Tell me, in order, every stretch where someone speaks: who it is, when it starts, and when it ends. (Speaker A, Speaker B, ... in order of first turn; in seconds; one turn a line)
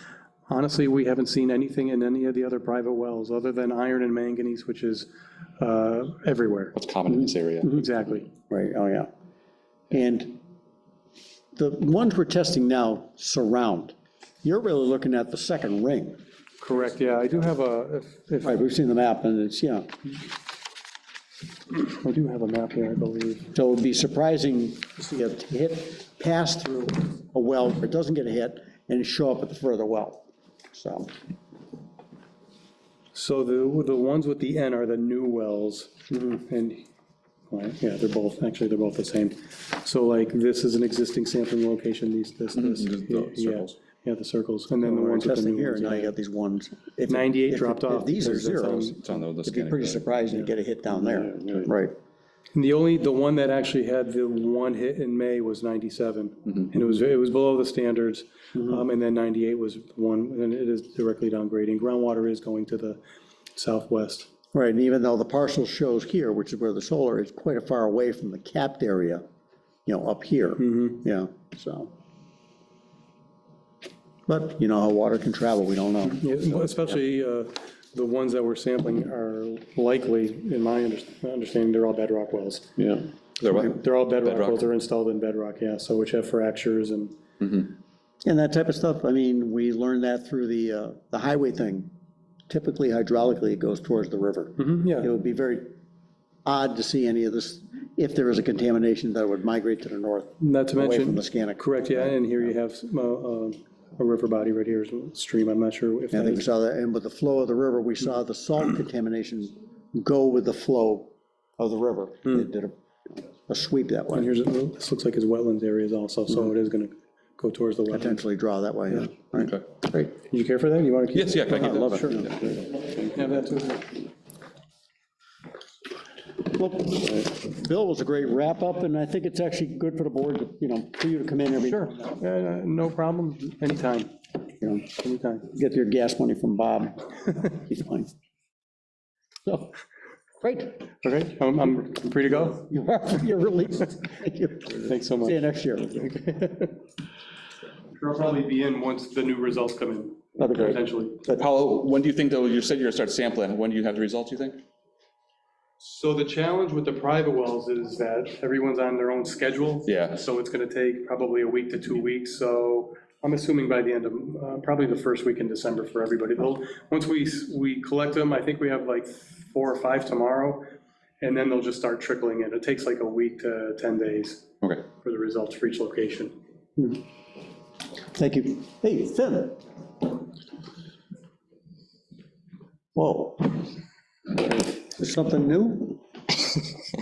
Speaker A: 0.5-6.8
Speaker B: 6.8-7.7
Speaker A: 7.6-8.3
Speaker C: 8.5-9.1
Speaker C: 9.9-10.4
Speaker C: 11.6-16.2
Speaker A: 16.6-18.6
Speaker C: 18.4-19.9
Speaker A: 21.7-23.5
Speaker C: 23.5-31.1
Speaker A: 33.1-36.9
Speaker A: 37.5-46.1
Speaker B: 42.5-43.8
Speaker C: 44.8-52.0
Speaker A: 47.1-49.0
Speaker B: 49.0-50.1
Speaker B: 51.2-51.7
Speaker A: 52.5-63.0
Speaker C: 58.6-58.8
Speaker A: 63.5-64.3
Speaker C: 64.5-69.2
Speaker C: 69.9-71.9
Speaker A: 70.6-71.0
Speaker C: 74.3-77.0
Speaker A: 76.1-82.8
Speaker B: 82.8-84.7
Speaker A: 83.5-87.2
Speaker C: 88.2-91.9
Speaker C: 92.5-95.8
Speaker A: 94.6-95.1
Speaker C: 96.5-102.5
Speaker A: 100.4-106.5
Speaker C: 106.1-114.3
Speaker A: 114.1-118.2
Speaker C: 117.9-120.1
Speaker A: 120.1-122.2
Speaker B: 121.1-122.3
Speaker C: 121.6-122.5
Speaker A: 123.1-124.0
Speaker C: 126.5-132.0
Speaker A: 131.7-134.1
Speaker A: 134.9-135.5
Speaker C: 135.5-138.1
Speaker C: 139.5-139.7
Speaker C: 140.4-141.1
Speaker A: 141.1-142.6
Speaker C: 142.4-146.1
Speaker A: 144.8-145.4
Speaker A: 145.9-146.8
Speaker A: 148.0-151.2
Speaker C: 150.4-150.8
Speaker B: 151.3-154.6
Speaker A: 155.8-170.7
Speaker B: 159.9-160.2
Speaker A: 171.2-176.3
Speaker C: 178.2-179.7
Speaker C: 182.9-183.7
Speaker C: 184.3-186.0